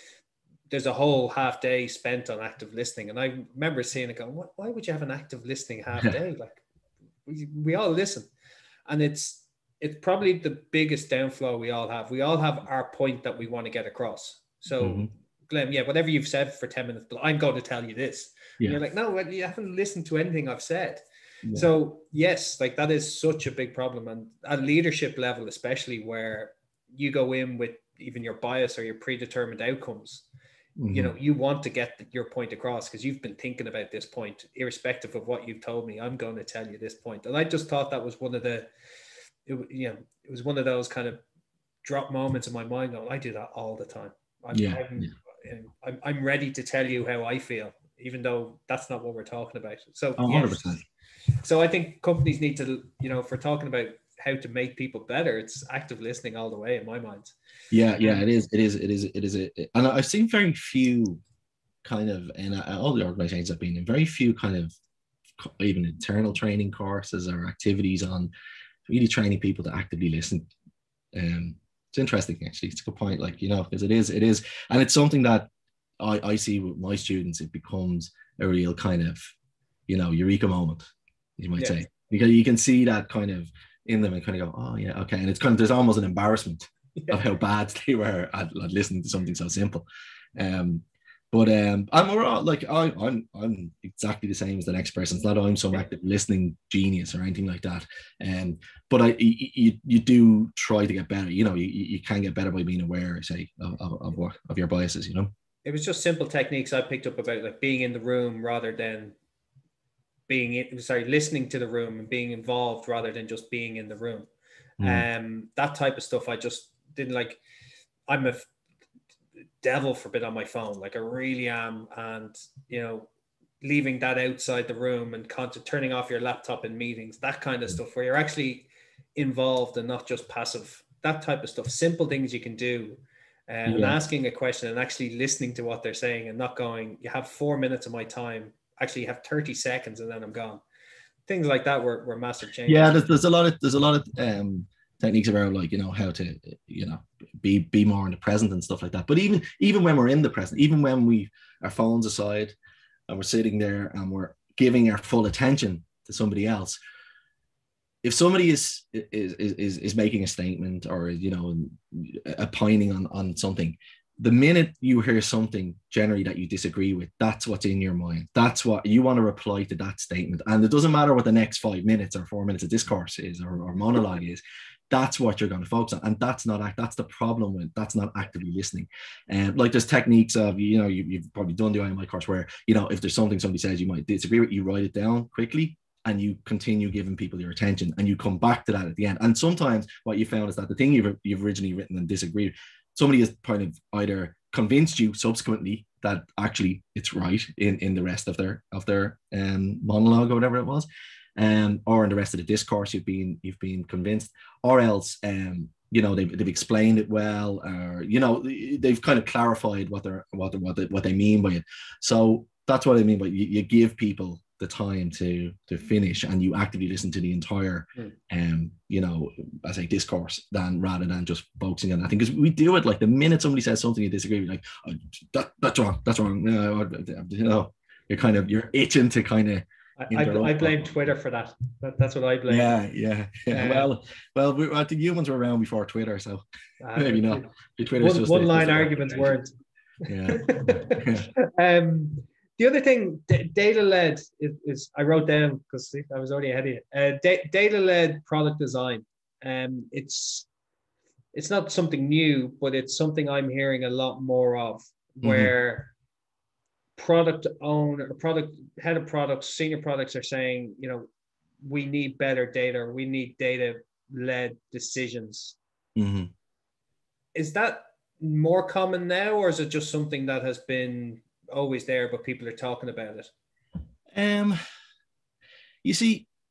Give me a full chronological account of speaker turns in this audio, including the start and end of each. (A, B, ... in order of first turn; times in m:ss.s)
0:00.7-0:06.6 A
0:07.3-0:08.3 A
0:08.9-0:21.0 A
0:14.8-0:15.1 B
0:21.5-0:30.2 A
0:30.8-0:31.1 B
0:30.9-0:38.7 A
0:39.5-0:41.2 A
0:41.8-0:50.8 A
0:44.5-0:45.1 B
0:50.2-0:50.8 B
0:51.4-0:57.3 A
0:57.7-1:01.2 B
1:01.8-1:04.7 B
1:05.4-1:08.3 B
1:08.9-1:10.5 B
1:11.1-1:15.5 B
1:16.0-1:19.2 B
1:19.9-1:20.8 B
1:21.4-1:29.8 B
1:30.4-1:45.3 B
1:45.6-1:49.1 A
1:50.3-1:54.3 A
1:54.8-1:55.0 B
1:54.8-1:57.4 A
1:58.1-1:58.5 A
1:59.6-2:03.1 A
2:03.6-2:20.6 A
2:13.6-2:14.0 B
2:21.3-2:23.0 A
2:22.6-2:32.5 B
2:33.1-2:36.8 B
2:38.0-3:50.9 B
3:50.0-3:52.8 A
3:52.5-3:56.4 B
3:53.5-3:53.9 A
3:56.8-3:59.5 A
3:56.9-3:59.4 B
4:00.0-4:01.3 B
4:00.3-4:10.5 A
4:11.3-4:15.9 A
4:15.2-4:15.5 B
4:17.0-4:21.1 A
4:21.6-4:25.6 A
4:26.0-4:26.3 B
4:27.3-4:33.3 A
4:34.1-4:34.6 B
4:35.8-4:36.3 B